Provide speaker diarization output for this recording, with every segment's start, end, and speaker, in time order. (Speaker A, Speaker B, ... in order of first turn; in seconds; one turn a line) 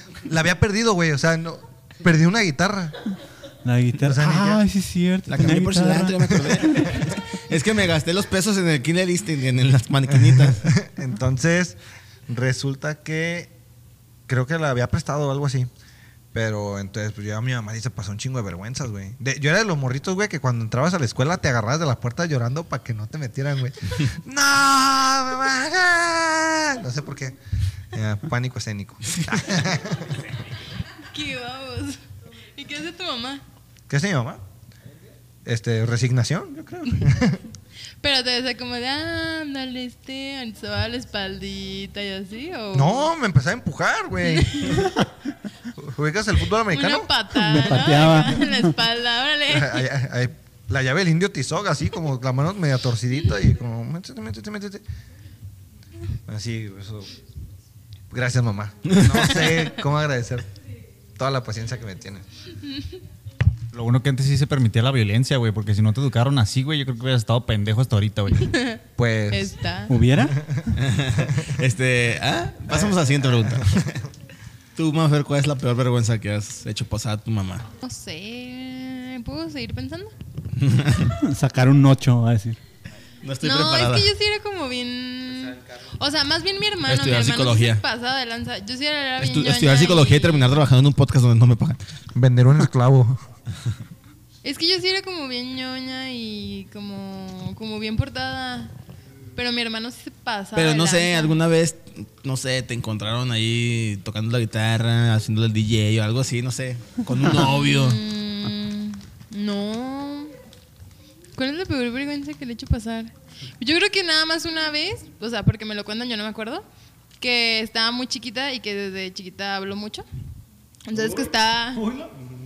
Speaker A: 0.2-3.0
Speaker B: 3.6-6.5
Speaker A: 4.0-4.6
Speaker C: 5.3-10.7
Speaker A: 10.6-13.5
Speaker A: 14.3-15.7
Speaker A: 16.3-27.4
Speaker A: 27.9-30.3
Speaker D: 31.1-32.0
Speaker D: 32.5-33.4
Speaker A: 33.9-34.4
Speaker A: 35.5-37.4
Speaker D: 38.0-43.1
Speaker A: 42.7-44.8
Speaker D: 44.3-44.8
Speaker A: 45.8-47.1
Speaker D: 46.7-49.9
Speaker B: 47.3-48.7
Speaker A: 49.5-54.8
Speaker A: 56.3-57.1
Speaker A: 58.1-60.5
Speaker C: 58.9-59.3
Speaker A: 61.2-62.3
Speaker E: 63.7-68.5
Speaker D: 68.3-70.0
Speaker A: 69.0-69.5
Speaker B: 69.9-70.6
Speaker C: 70.8-74.0
Speaker A: 73.4-73.8
Speaker C: 74.8-77.7
Speaker D: 77.8-80.1
Speaker C: 80.6-81.2
Speaker B: 81.1-82.6
Speaker C: 83.2-84.1
Speaker D: 83.4-90.7
Speaker C: 86.9-87.8
Speaker C: 89.2-91.8
Speaker A: 92.2-93.2
Speaker D: 94.4-98.7
Speaker D: 99.3-101.4
Speaker C: 100.6-108.0
Speaker D: 107.2-110.3
Speaker D: 111.3-116.7
Speaker D: 117.2-120.1
Speaker D: 120.9-121.9